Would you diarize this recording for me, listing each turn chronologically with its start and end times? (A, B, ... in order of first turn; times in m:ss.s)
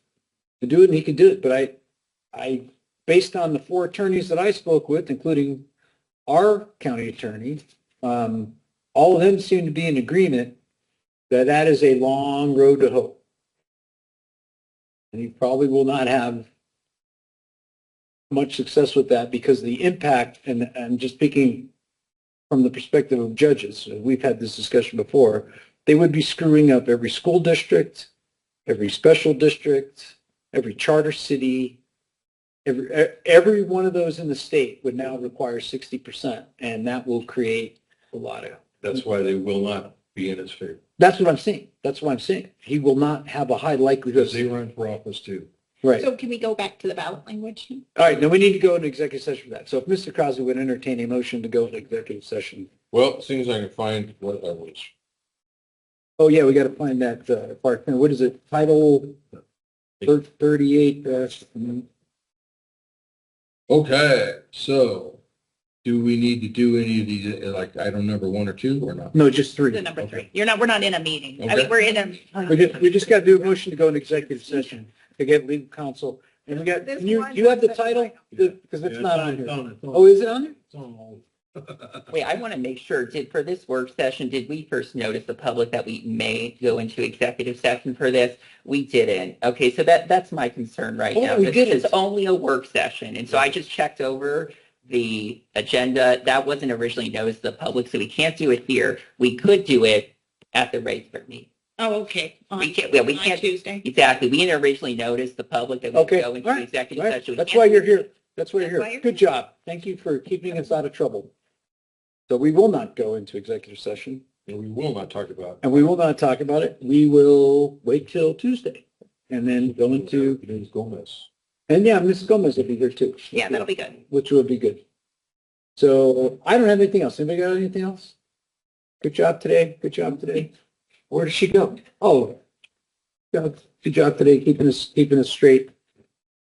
0:00.6-0:01.7 A
0:02.3-0:05.6 A
0:06.3-0:10.6 A
0:11.3-0:13.2 A
0:15.1-0:16.5 A
0:18.3-0:21.7 A
0:22.5-0:28.1 A
0:28.6-0:31.8 A
0:32.6-0:38.6 A
0:38.8-0:40.8 B
0:41.0-0:44.5 A
0:44.1-0:45.5 B
0:46.0-0:47.8 C
0:48.0-0:52.7 A
0:52.9-0:54.9 B
0:56.2-0:59.2 A
1:00.0-1:01.8 A
1:03.7-1:05.2 B
1:05.8-1:09.2 B
1:09.1-1:09.8 A
1:09.7-1:13.4 C
1:10.0-1:10.2 B
1:11.4-1:11.8 B
1:12.5-1:20.6 A
1:16.8-1:18.1 C
1:18.4-1:22.1 B
1:22.1-1:41.5 D
1:31.1-1:31.9 A
1:41.8-1:43.8 C
1:42.6-1:48.0 D
1:45.9-1:51.3 A
1:48.6-1:49.1 C
1:52.3-1:54.2 A
1:54.4-1:55.6 B
1:55.6-2:00.4 A
1:59.9-2:01.3 B
2:01.7-2:04.8 A
2:03.3-2:04.0 C
2:05.8-2:08.1 A
2:09.0-2:10.5 A
2:11.1-2:12.4 A
2:13.3-2:15.7 A